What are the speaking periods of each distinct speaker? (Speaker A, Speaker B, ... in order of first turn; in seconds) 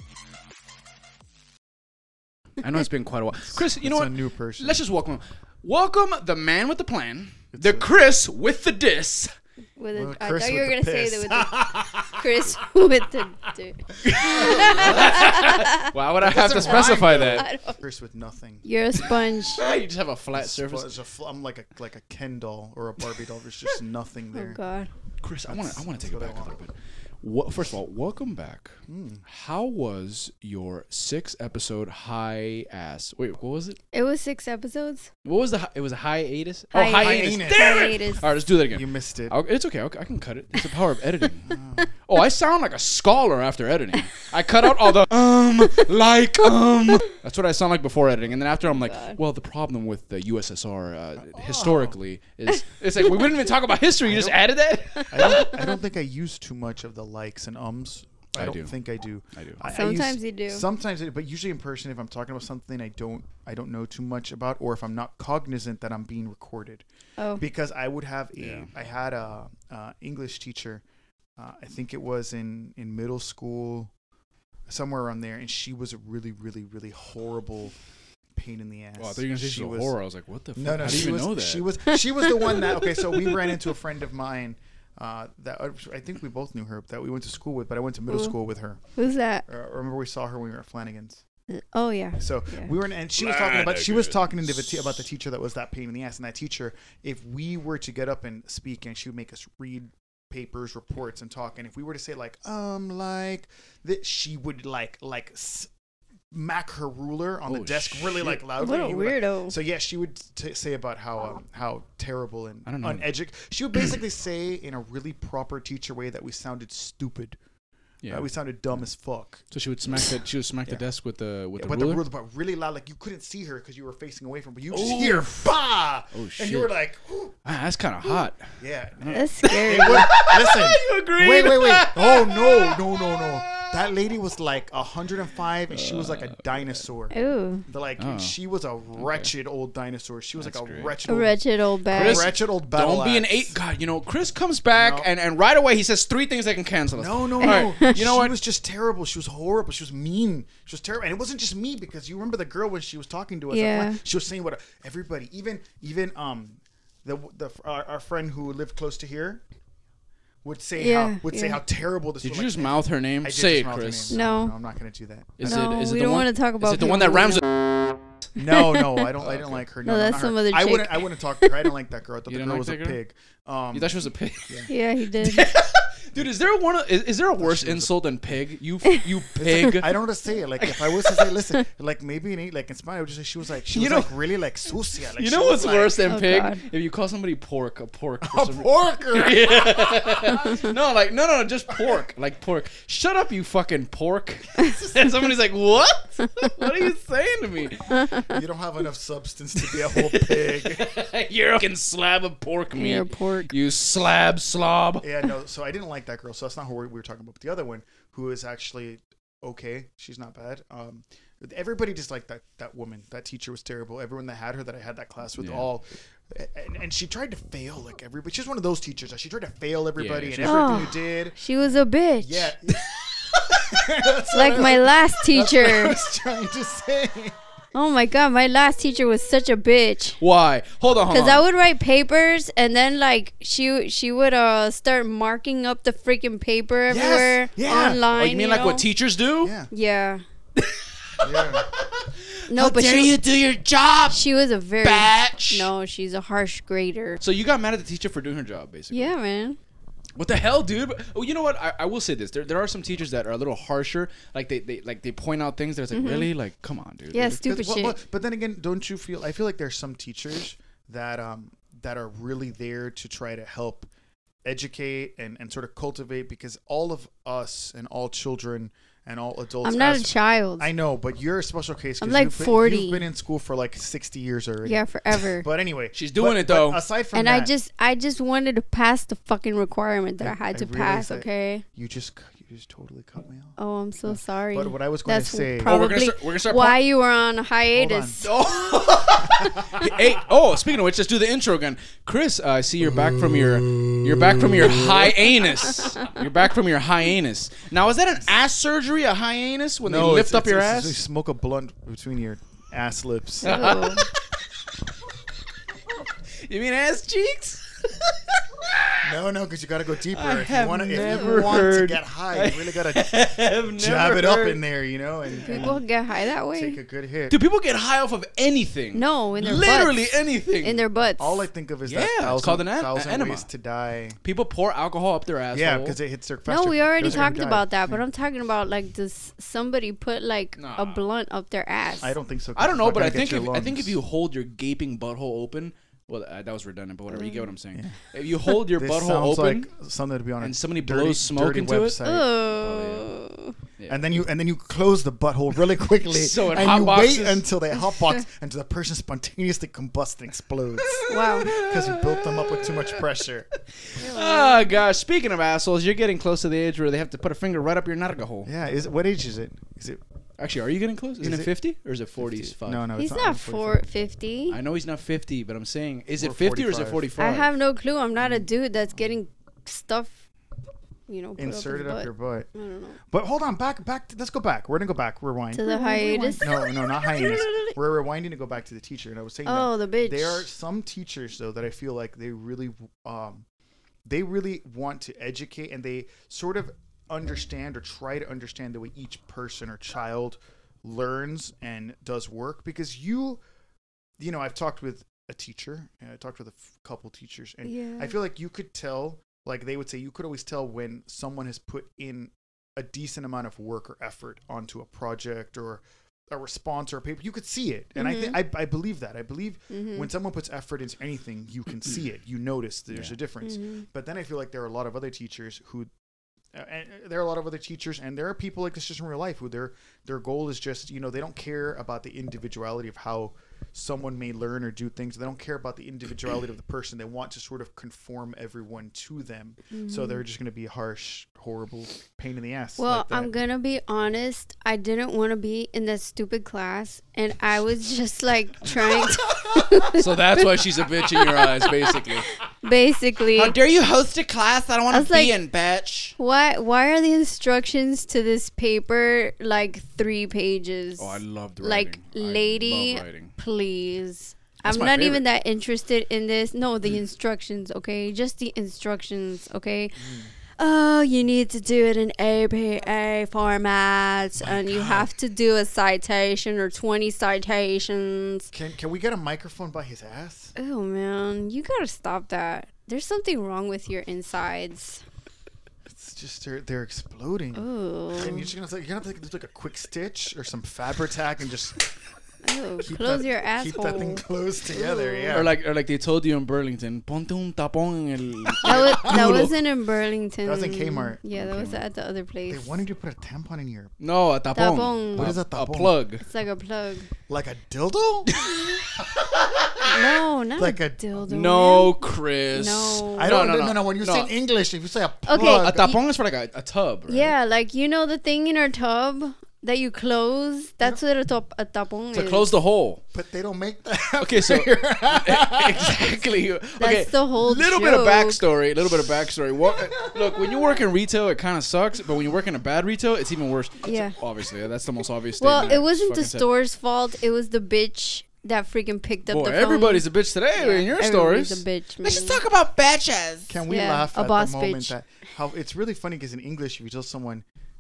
Speaker A: 2.6-9.3, 14.0-17.4, 19.5-20.9, 25.2-33.8, 35.2-55.6, 58.4-58.8, 59.4-59.6, 68.4-68.7, 79.0-81.7, 107.5-108.4, 112.7-113.1, 118.0-118.3, 119.5-122.0, 124.7-125.5, 126.1-126.7, 127.5-133.9, 135.7-136.8, 138.0-138.3, 139.0-139.3, 140.4-141.0, 141.9-148.3, 162.2-164.2, 165.4-167.7, 169.2-169.7, 172.3-173.0, 173.7-179.9, 180.6-181.3, 183.7-184.2, 185.2-197.9, 199.6-205.1, 215.4-215.7, 219.9-220.9, 230.2-231.4, 238.1-239.6, 240.6-244.2, 244.8-245.7, 247.2-249.1, 250.2-257.4, 275.9-276.8, 285.6-286.8, 288.2-301.0, 303.4-304.1, 306.4-309.1, 310.1-314.6, 315.5-315.7, 317.3-320.8, 321.9-323.5, 324.2-326.0, 330.6-331.0, 332.6-339.7, 340.4-343.1, 343.8-344.3, 346.0-347.4, 350.8-353.0, 353.9-358.5, 360.4-362.9, 364.5-367.5, 439.9-442.3, 443.4-446.2, 451.0-453.3, 454.6-455.2, 485.3-489.6, 491.4-491.8, 494.0-496.2, 498.3-499.9, 501.3-504.3, 505.3-507.3, 512.1-513.0, 514.2-526.5, 529.3-533.6
Speaker B: 3.8-4.8, 7.5-7.9, 9.9-12.3, 14.3-15.2, 16.2-18.6, 20.3-24.6, 25.5-26.6, 28.9-29.2, 36.9-37.9, 38.7-39.4, 41.5-41.9, 51.2-52.0, 54.0-54.4, 55.1-66.8, 67.4-70.8, 71.4-73.9, 74.7-77.8, 78.4-79.9, 80.6-88.8, 89.5-91.2, 92.2-105.7, 106.3-117.4, 118.1-119.4, 121.6-127.5, 128.6-137.2, 137.7-141.4, 141.9-143.6, 144.8-145.1, 147.0-159.4, 160.4-165.7, 168.4-174.7, 177.4-178.0, 179.4-186.0, 188.2-190.7, 198.2-200.9, 205.0-221.4, 222.2-222.8, 223.6-227.4, 236.9-238.0, 239.4-239.7, 241.2-241.7, 257.4-263.9, 264.4-277.5, 280.2-285.8, 287.7-288.2, 289.3-289.9, 299.8-303.9, 309.0-313.2, 313.7-315.8, 316.5-317.4, 321.2-324.2, 325.5-328.0, 332.0-334.0, 337.7-338.0, 338.6-342.3, 343.9-353.5, 358.4-360.0, 361.2-361.5, 362.2-363.8, 366.2-367.1, 368.2-368.4, 371.4-372.5, 373.1-383.4, 384.1-393.4, 394.2-415.9, 416.5-433.3, 460.0-460.3, 464.4-465.1, 468.5-470.5, 475.9-481.8, 482.8-485.5, 488.6-489.5, 490.4-491.4, 492.5-493.9, 495.1-496.0, 497.3-498.3, 500.6-501.3, 503.2-505.9, 513.1-516.2, 533.5-537.5
Speaker C: 9.8-15.9, 16.7-17.8, 18.6-19.6, 24.3-24.9, 33.9-35.1, 36.7-38.2, 48.7-49.2, 55.0-55.5, 59.7-60.6, 67.2-67.4, 81.9-83.0, 88.1-88.3, 89.0-89.5, 91.5-92.7, 108.6-109.5, 129.1-130.2, 137.1-137.6, 141.1-142.3, 147.4-147.9, 153.5-154.0, 160.8-161.6, 164.1-164.5, 165.4-167.4, 168.5-169.0, 169.8-171.6, 174.7-175.5, 178.9-179.8, 186.1-186.6, 197.9-198.3, 202.8-203.5, 220.4-222.5, 224.3-225.9, 227.7-230.2, 231.1-238.9, 239.7-240.2, 242.5-243.2, 244.1-247.2, 248.9-249.6, 255.9-256.3, 257.1-258.0, 269.6-270.7, 272.0-273.0, 274.6-275.5, 277.1-281.6, 283.6-288.4, 303.4-304.1, 311.0-311.4, 315.4-316.8, 318.9-320.1, 320.6-321.5, 326.5-332.1, 337.1-337.5, 342.0-343.6, 351.1-351.5, 354.0-354.7, 363.0-364.6, 367.2-370.3, 371.1-373.0, 375.5-377.8, 379.5-380.5, 397.6-398.1, 408.0-408.4, 409.7-410.1, 413.4-413.9, 429.7-430.2, 432.8-440.5, 441.1-443.6, 444.9-445.4, 446.2-460.0, 460.6-468.5, 470.6-475.0, 477.6-478.5, 482.4-485.4, 488.6-492.8, 494.6-495.3, 496.2-497.1, 499.9-502.0, 502.5-503.4, 505.3-506.0, 507.1-512.5, 516.8-518.4, 523.8-524.2, 525.4-532.4, 533.7-534.9